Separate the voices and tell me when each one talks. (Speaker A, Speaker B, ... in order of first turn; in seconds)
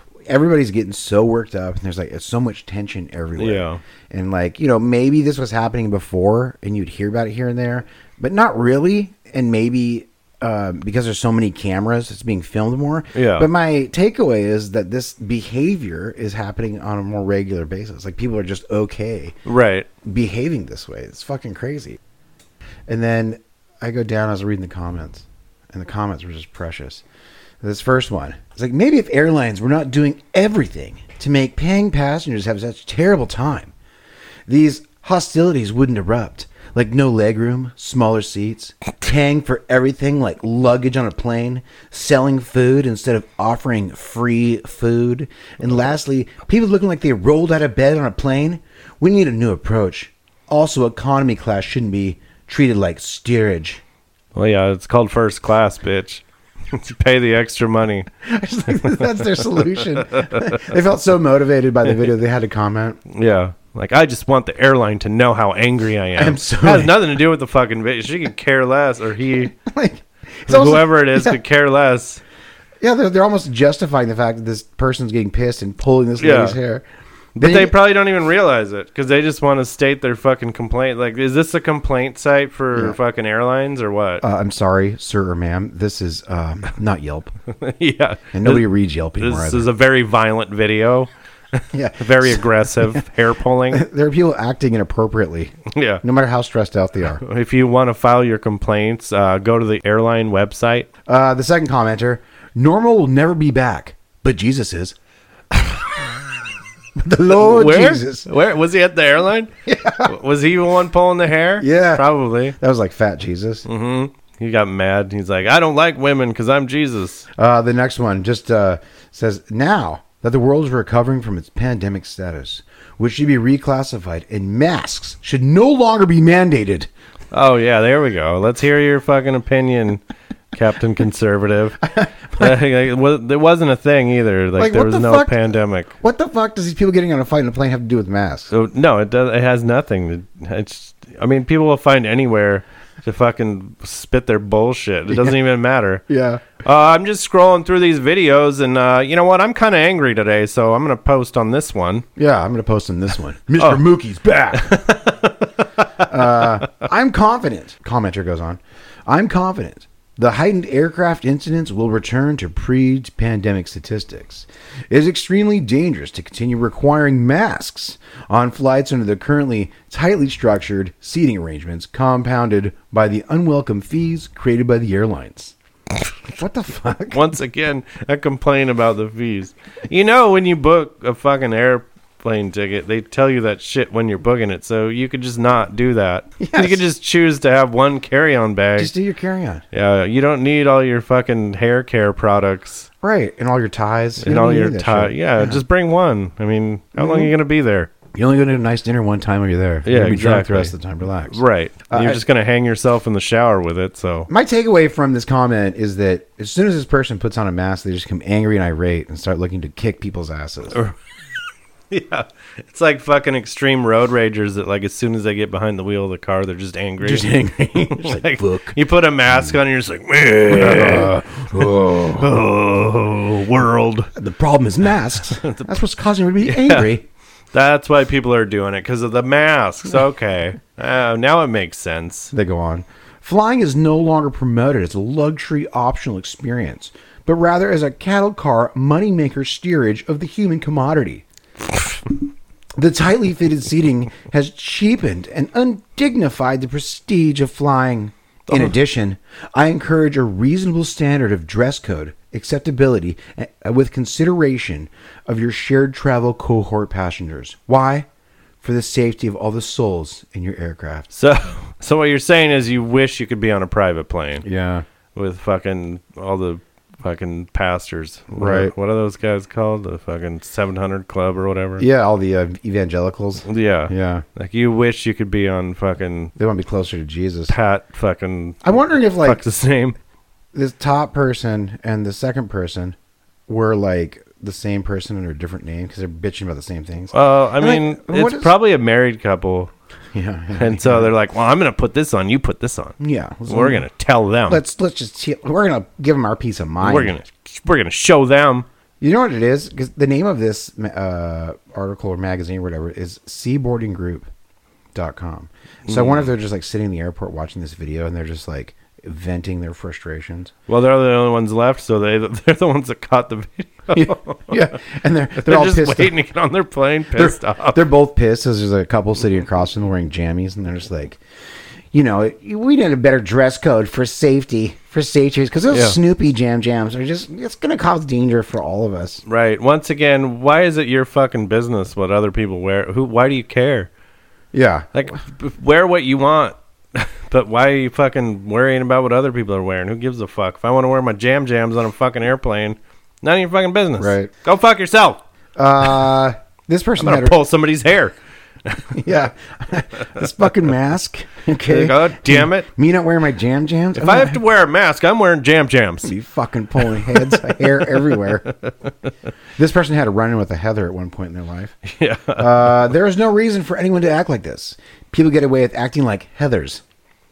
Speaker A: 0.3-19.4, 20.0-22.0, 22.9-27.0, 27.6-33.7, 34.5-53.8, 58.2-63.0, 66.2-67.0, 69.5-71.4, 72.8-76.8, 77.4-77.7, 84.2-87.3, 88.3-89.7, 91.7-93.0, 93.7-97.2, 101.1-104.9, 107.0-108.3, 109.7-110.1, 111.6-113.7, 117.3-126.9, 131.9-132.5, 134.6-138.5, 145.1-145.3, 146.1-146.4, 152.2-154.8, 156.0-175.5, 176.3-177.2, 186.4-186.8, 188.8-189.6, 193.0-195.6, 197.0-197.3, 198.1-202.2, 204.3-210.8, 217.0-218.8, 220.5-222.3, 224.1-227.0, 232.3-241.2, 242.8-258.1, 258.6-261.1, 264.4-264.8, 268.3-268.7, 271.8-274.2, 276.4-277.5, 278.6-279.4, 280.5-282.9, 283.5-288.5, 290.1-291.1, 293.0-293.9, 294.5-297.2, 299.0-304.3, 304.9-310.5, 313.9-316.1, 317.1-321.2, 321.9-329.2, 334.5-334.9, 344.0-344.3, 345.6-347.4, 348.9-354.4, 356.0-358.5, 359.6-361.8, 362.4-366.8
Speaker B: 3.4-3.8, 13.1-13.5, 19.4-19.9, 54.3-58.1, 58.7-60.7, 63.1-69.5, 70.5-72.2, 76.2-76.6, 77.3-84.2, 87.5-88.7, 89.2-93.8, 95.7-96.0, 97.2-100.9, 107.3-112.5, 113.7-117.2, 127.3-130.0, 130.5-131.8, 132.3-135.9, 138.5-146.0, 146.5-152.1, 154.5-156.6, 177.1-188.9, 189.7-192.9, 194.2-197.9, 199.8-200.7, 201.3-204.3, 211.9-224.1, 225.4-225.8, 226.4-226.9, 227.5-232.3, 248.5-248.8, 261.1-264.4, 265.1-271.8, 273.4-276.3, 277.5-279.9, 287.1-289.7, 290.5-292.9, 293.5-294.6, 296.8-298.7, 305.9-306.3, 310.7-314.6, 315.4-317.8, 325.7-326.0, 329.2-333.9, 334.9-345.2, 347.0-349.0, 351.6-352.7, 353.9-356.1, 356.8-358.9, 361.8-362.9